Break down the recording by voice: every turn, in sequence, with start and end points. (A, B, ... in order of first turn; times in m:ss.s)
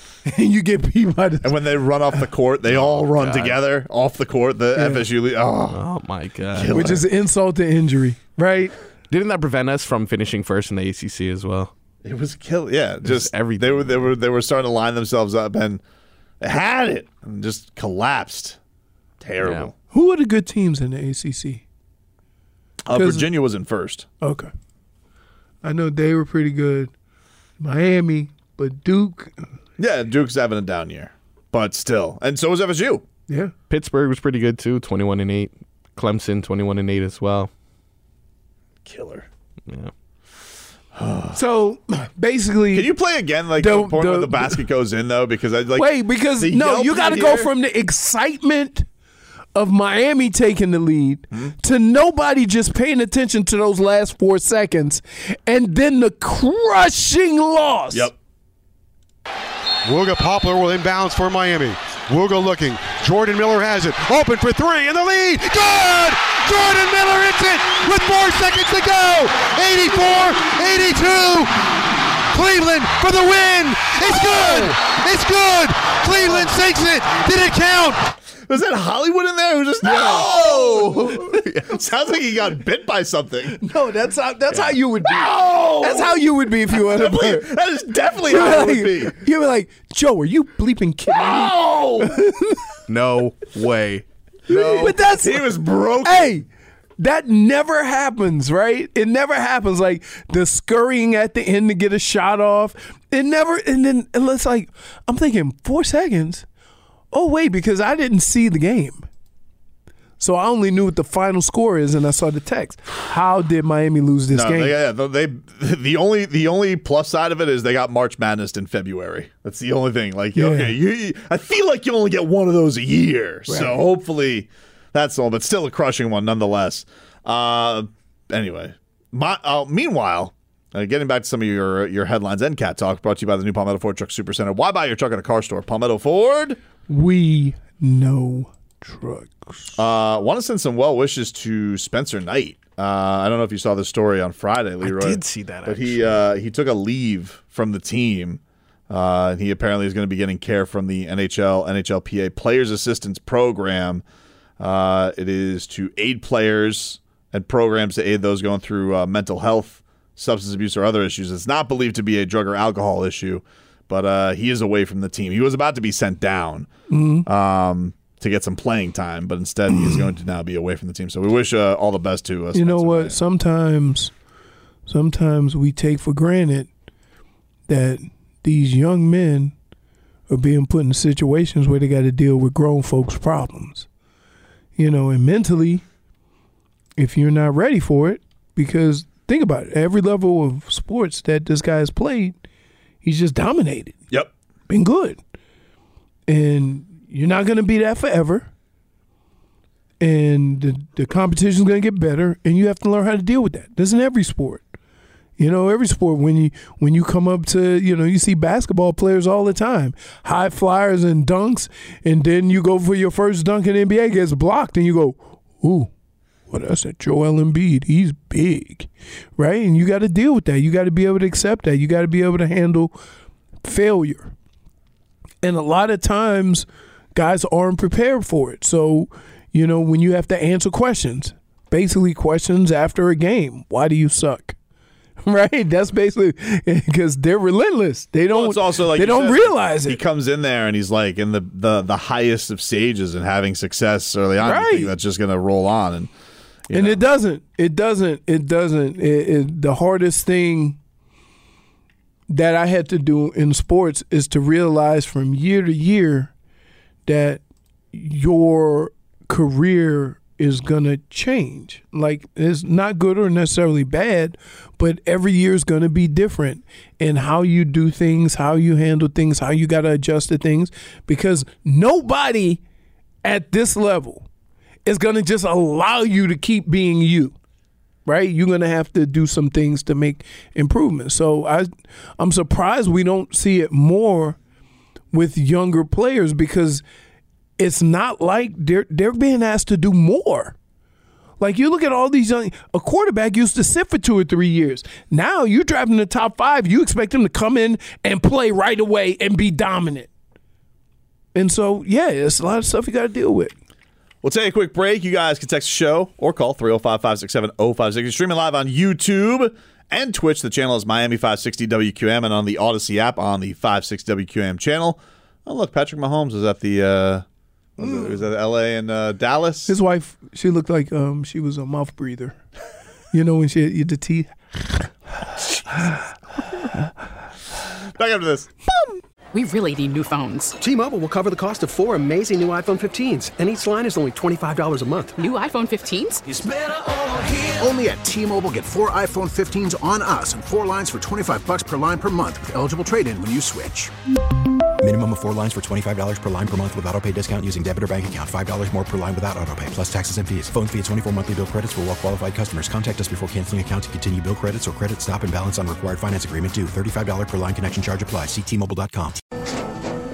0:00.2-0:01.5 A
0:01.4-0:05.9 B
0:02.7-0:03.6 C
0:04.8-0:05.1 A
0:05.7-0:07.0 C
0:06.5-0:07.0 B
0:06.7-0:08.7 A
0:09.1-0:11.7 C
0:12.0-0:15.8 B
0:13.0-0:14.1 C
0:16.4-0:18.6 B
0:19.2-0:19.7 B
0:19.4-0:19.7 C
0:19.9-0:21.6 A
0:22.9-0:24.1 B
0:22.9-0:23.3 A
0:24.2-0:24.5 A
0:25.6-0:26.9 A
0:27.6-0:29.4 A
0:29.8-0:33.0 B
0:33.3-0:33.5 A
0:33.7-0:37.5 C
0:38.8-0:39.3 B
0:41.0-0:41.4 B
0:41.3-0:42.9 A
0:42.7-0:47.5 B
0:43.6-0:44.6 A
0:45.8-0:48.9 A
0:49.6-0:58.1 A
0:59.8-1:11.6 D
1:12.3-1:18.1 D
1:18.5-1:23.6 B
1:19.8-1:21.3 A
1:20.0-1:20.3 C
1:21.2-1:21.7 C
1:23.6-1:27.5 A
1:25.0-1:29.2 B
1:28.2-1:32.6 A
1:31.1-1:32.2 B
1:32.9-1:34.0 C
1:34.5-1:36.4 B
1:34.5-1:36.5 A
1:37.0-1:46.4 A
1:47.1-1:49.0 A
1:50.2-1:54.8 A
1:54.3-2:16.6 B
2:00.4-2:00.8 A
2:03.5-2:03.8 A
2:16.9-2:19.8 A
2:19.8-2:34.0 B
2:24.8-2:26.2 C
2:34.6-2:46.7 B
2:46.9-2:47.3 A
2:47.2-2:53.2 B
2:52.5-2:54.1 A
2:54.9-2:56.7 A
2:57.7-2:59.5 A
3:00.3-3:03.9 A
3:04.8-3:05.8 A
3:07.0-3:12.4 A
3:13.0-3:14.0 A
3:14.7-3:15.2 A
3:16.3-3:18.5 A
3:20.0-3:24.6 A
3:25.4-3:35.9 A
3:36.5-3:43.0 A
3:43.6-3:44.3 A
3:45.4-3:54.6 A
3:55.2-4:00.0 A
3:58.3-4:06.1 B
4:04.4-4:04.9 A
4:06.7-4:07.0 B
4:06.7-4:10.8 A
4:12.3-4:16.3 A
4:17.1-4:32.6 A
4:33.2-4:34.3 A
4:34.9-4:37.4 A
4:38.1-4:44.4 A
4:45.1-4:46.8 A
4:47.6-4:50.6 A
4:51.4-5:00.1 A
5:01.4-5:03.5 A
5:04.2-5:17.2 B
5:17.8-5:19.7 B
5:17.8-5:18.1 A
5:19.7-5:22.4 A
5:23.1-5:24.9 A
5:28.0-5:28.5 B
5:29.3-5:30.6 E
5:30.6-5:35.2 F
5:35.2-5:36.2 E
5:36.3-5:43.9 G
5:44.8-5:59.2 H